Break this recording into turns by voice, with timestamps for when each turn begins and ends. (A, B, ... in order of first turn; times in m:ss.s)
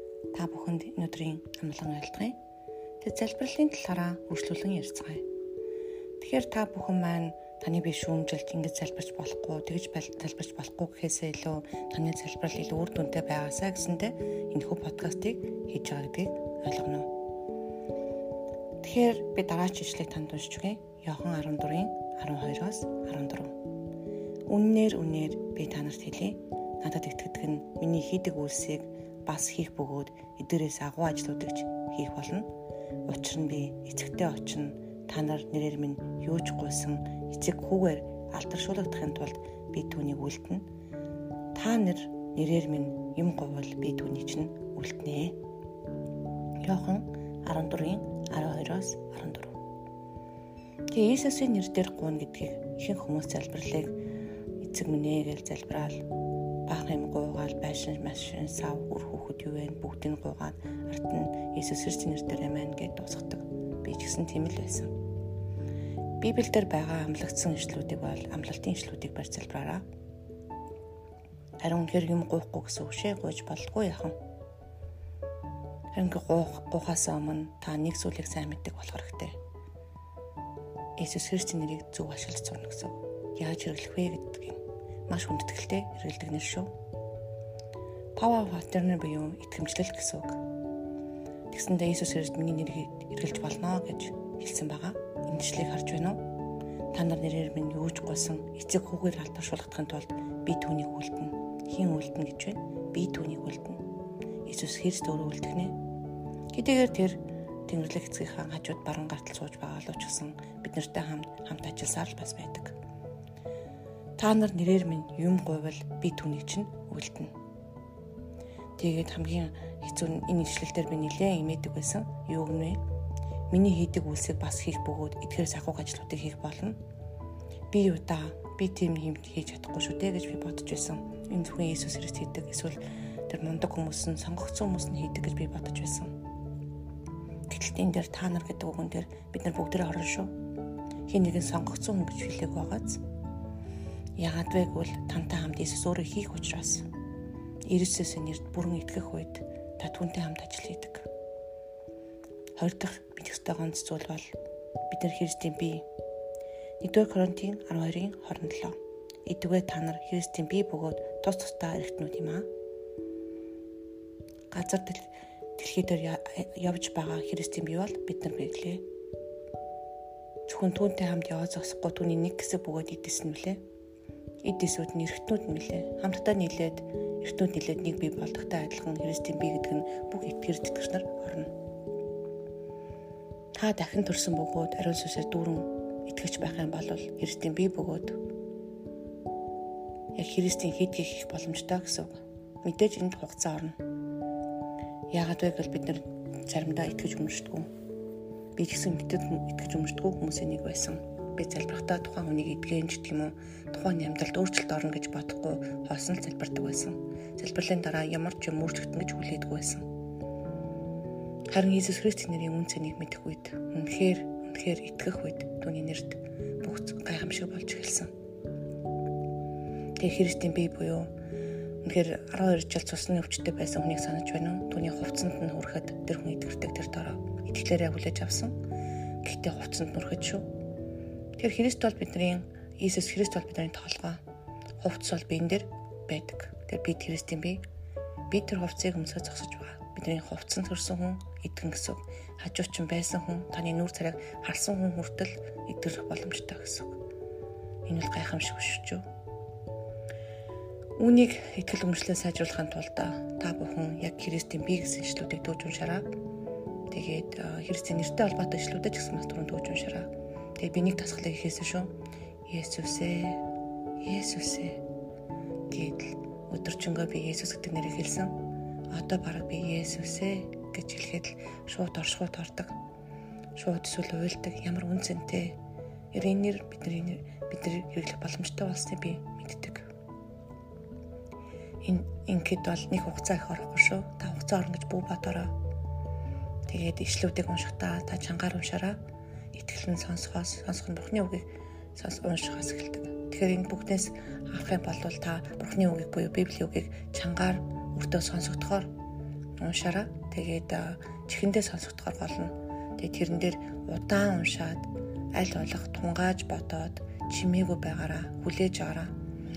0:00.3-0:02.4 A
0:03.0-0:05.2 A
0:06.2-0:17.1 A
0:18.8-0:23.6 A
0:24.5-0:32.5 A
0:33.0-0:40.7 A
0:41.5-0:45.4 A
0:46.6-0:49.6 A
0:50.9-0:54.0 A
0:54.6-0:56.1 A
0:56.6-1:04.9 A
1:06.2-1:09.8 A
1:11.6-1:14.2 A
1:15.9-1:19.4 A
1:21.0-1:26.7 A
1:28.2-1:30.4 A
1:31.5-1:36.3 A
1:36.9-1:43.8 A
1:44.4-1:45.8 A
1:46.5-1:52.8 A
1:54.2-1:57.3 A
1:58.8-2:02.8 A
2:03.5-2:06.8 A
2:07.7-2:16.1 A
2:17.5-2:20.3 A
2:21.1-2:23.0 A
2:24.2-2:26.9 A
2:27.6-2:31.1 A
2:32.6-2:34.3 A
2:34.9-2:35.8 A
2:36.8-2:42.5 A
2:44.5-2:48.8 A
2:50.4-2:53.6 A
2:54.4-3:01.5 A
3:03.6-3:08.2 A
3:10.1-3:13.8 A
3:15.1-3:17.7 A
3:18.6-3:29.9 A
3:31.5-3:38.1 A
3:40.0-3:41.1 A
3:41.8-3:48.5 A
3:49.2-3:50.5 A
3:51.4-3:54.2 A
3:54.8-3:57.6 A
3:58.3-4:07.0 A
4:07.8-4:09.0 A
4:11.0-4:16.1 A
4:16.9-4:23.4 A
4:24.0-4:24.8 A
4:25.7-4:28.4 A
4:28.9-4:32.8 A
4:33.5-4:35.6 A
4:36.1-4:39.9 A
4:41.8-4:45.5 A
4:46.7-4:49.0 A
4:49.5-4:58.9 A
4:59.6-5:09.1 A